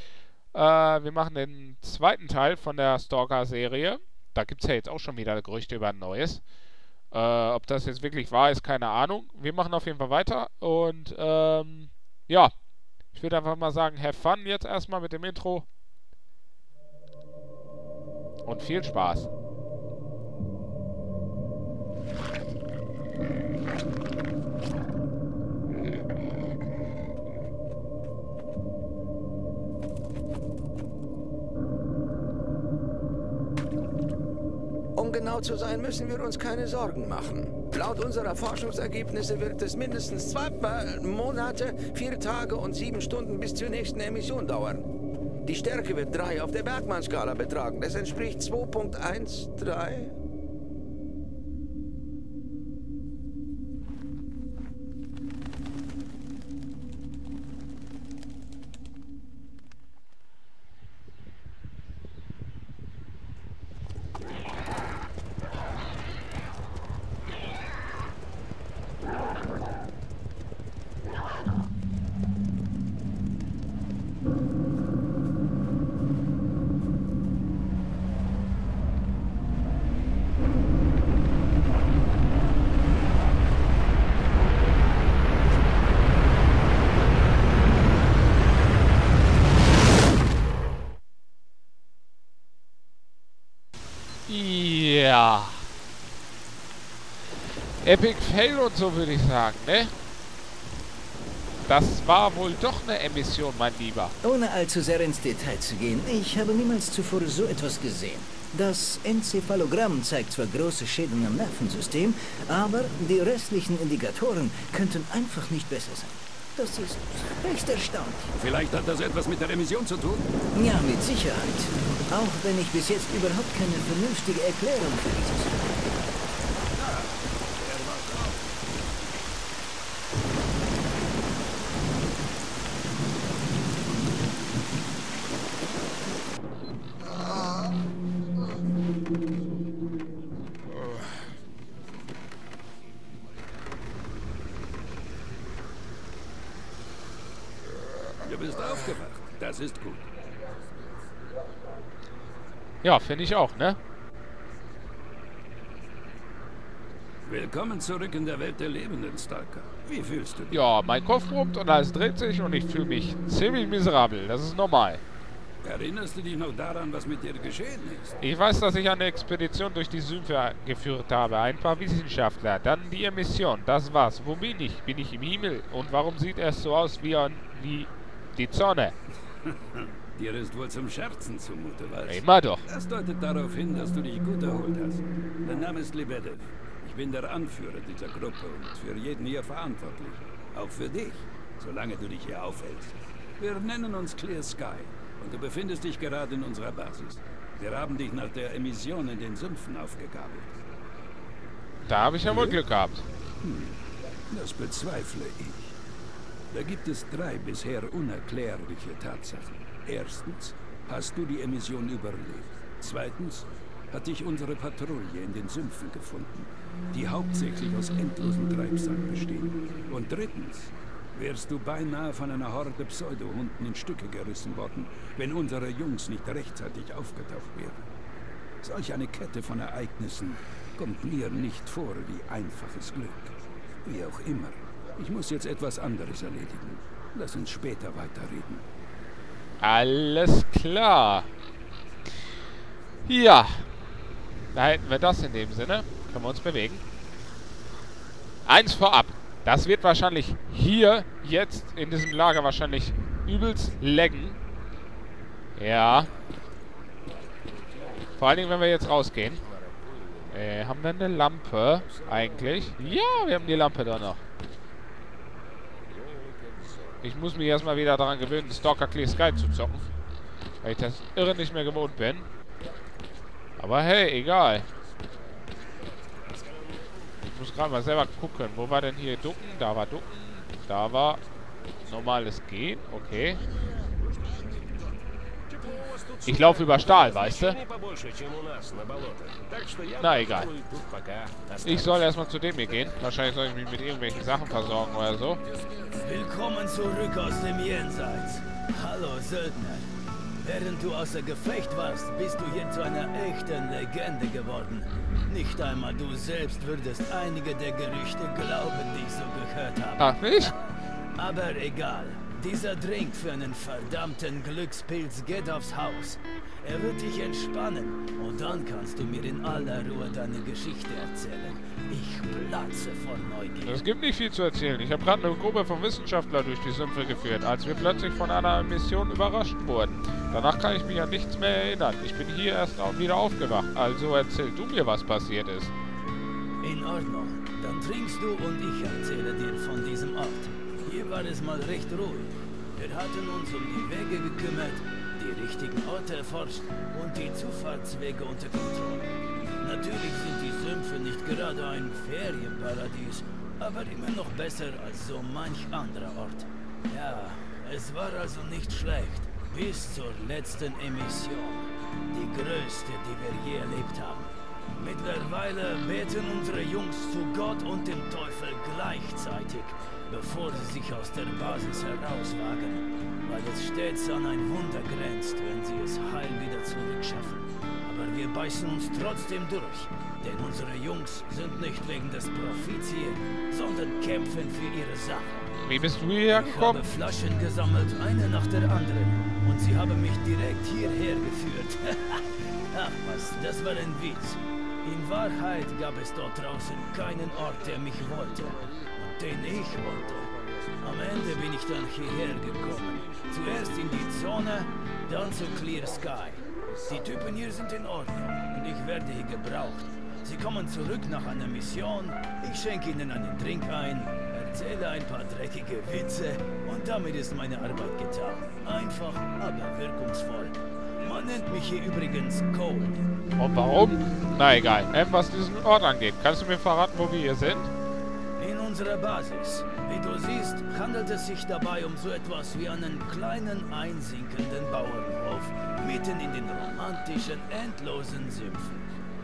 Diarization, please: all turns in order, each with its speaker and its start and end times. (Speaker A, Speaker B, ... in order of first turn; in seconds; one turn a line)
Speaker A: 0.5-6.4
Speaker A: 7.1-12.5
Speaker A: 13.1-15.7
Speaker A: 18.5-19.3
Speaker B: 35.0-44.8
Speaker B: 45.5-50.1
Speaker A: 94.3-95.7
Speaker A: 97.8-99.9
Speaker A: 101.7-104.1
Speaker C: 104.2-118.3
Speaker D: 118.4-120.3
Speaker C: 120.5-126.0
Speaker D: 126.7-128.5
Speaker D: 148.2-150.1
Speaker A: 152.8-153.8
Speaker D: 157.3-160.7
Speaker A: 160.5-165.0
Speaker D: 165.6-168.2
Speaker A: 168.2-178.9
Speaker D: 179.8-200.6
Speaker A: 182.1-182.7
Speaker A: 201.8-203.1
Speaker D: 202.3-202.6
Speaker D: 203.4-205.8
Speaker D: 206.5-227.8
Speaker D: 228.6-238.6
Speaker A: 239.6-241.3
Speaker A: 243.1-243.7
Speaker A: 244.5-246.8
Speaker A: 248.4-254.4
Speaker A: 255.6-256.1
Speaker A: 258.2-259.4
Speaker A: 260.3-264.2
Speaker A: 267.0-269.9
Speaker A: 270.6-272.3
Speaker A: 273.6-274.7
Speaker A: 277.2-281.2
Speaker A: 281.9-283.4
Speaker A: 286.2-287.6
Speaker A: 289.9-290.6
Speaker A: 291.6-295.4
Speaker E: 295.9-310.5
Speaker A: 310.0-310.5
Speaker E: 311.2-323.8
Speaker A: 323.6-335.7
Speaker E: 336.6-385.4
Speaker A: 385.6-386.8
Speaker E: 386.3-423.0
Speaker A: 423.4-427.7
Speaker E: 428.4-438.9